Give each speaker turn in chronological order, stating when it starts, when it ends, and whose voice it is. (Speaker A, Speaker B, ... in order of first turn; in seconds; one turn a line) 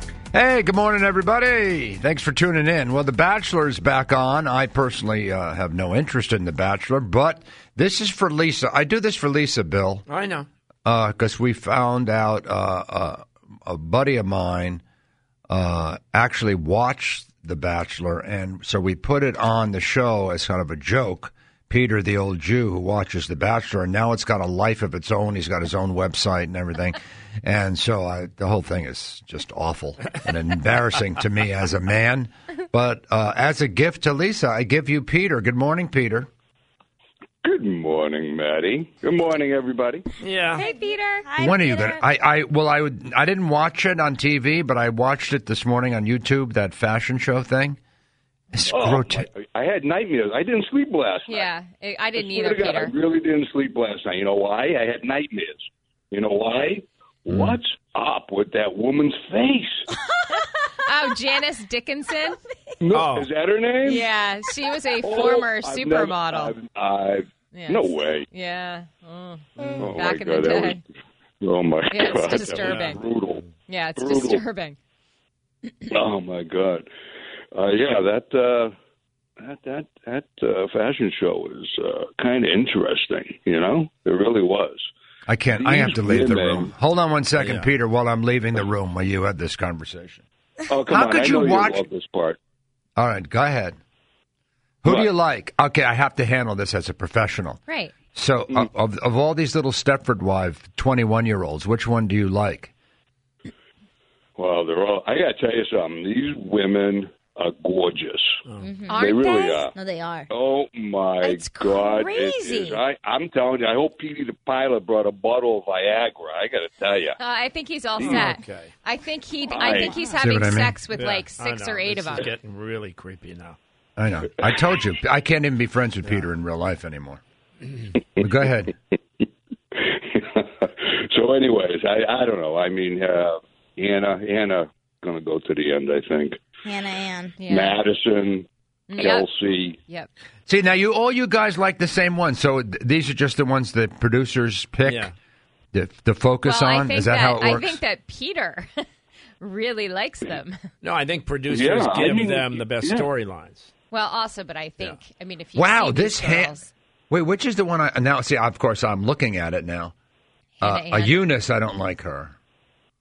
Speaker A: 0.3-10.0
Speaker B: 10.1-10.5
Speaker A: 10.8-14.8
Speaker A: 15.5-36.3
Speaker C: 37.4-40.1
Speaker B: 40.2-40.7
Speaker D: 40.5-41.3
Speaker E: 40.6-42.0
Speaker A: 41.4-47.8
Speaker A: 48.5-49.3
Speaker C: 48.7-51.5
Speaker D: 51.3-52.9
Speaker C: 52.2-59.9
Speaker D: 60.4-62.4
Speaker C: 62.8-64.0
Speaker B: 62.9-63.3
Speaker D: 63.8-66.5
Speaker C: 65.0-68.3
Speaker D: 67.5-70.8
Speaker C: 69.8-70.8
Speaker C: 71.4-74.4
Speaker D: 71.9-73.0
Speaker B: 72.6-73.0
Speaker D: 73.7-74.8
Speaker C: 75.9-76.9
Speaker C: 77.5-78.7
Speaker C: 79.4-84.9
Speaker A: 85.3-90.2
Speaker C: 85.6-86.7
Speaker B: 87.4-87.7
Speaker C: 90.7-92.4
Speaker A: 90.9-91.8
Speaker A: 93.0-93.8
Speaker A: 94.8-97.6
Speaker D: 97.7-97.9
Speaker A: 98.1-102.7
Speaker C: 104.4-108.4
Speaker E: 108.6-109.2
Speaker D: 108.9-109.7
Speaker C: 108.9-109.7
Speaker E: 109.7-110.3
Speaker C: 110.3-117.2
Speaker D: 111.2-112.8
Speaker E: 111.6-112.1
Speaker D: 117.2-122.3
Speaker C: 118.0-118.3
Speaker B: 118.0-118.7
Speaker C: 119.5-119.9
Speaker A: 120.2-120.8
Speaker B: 120.9-123.6
Speaker A: 124.0-127.2
Speaker A: 128.2-128.7
Speaker C: 129.7-136.4
Speaker E: 136.6-137.4
Speaker D: 137.4-137.8
Speaker C: 137.5-139.8
Speaker D: 138.9-139.2
Speaker A: 140.5-145.1
Speaker B: 144.8-145.1
Speaker A: 145.7-147.8
Speaker D: 146.4-148.8
Speaker D: 149.4-150.6
Speaker B: 150.8-153.7
Speaker C: 151.5-153.1
Speaker D: 153.9-156.7
Speaker A: 155.5-156.5
Speaker A: 157.1-159.9
Speaker D: 160.6-161.3
Speaker A: 160.6-162.3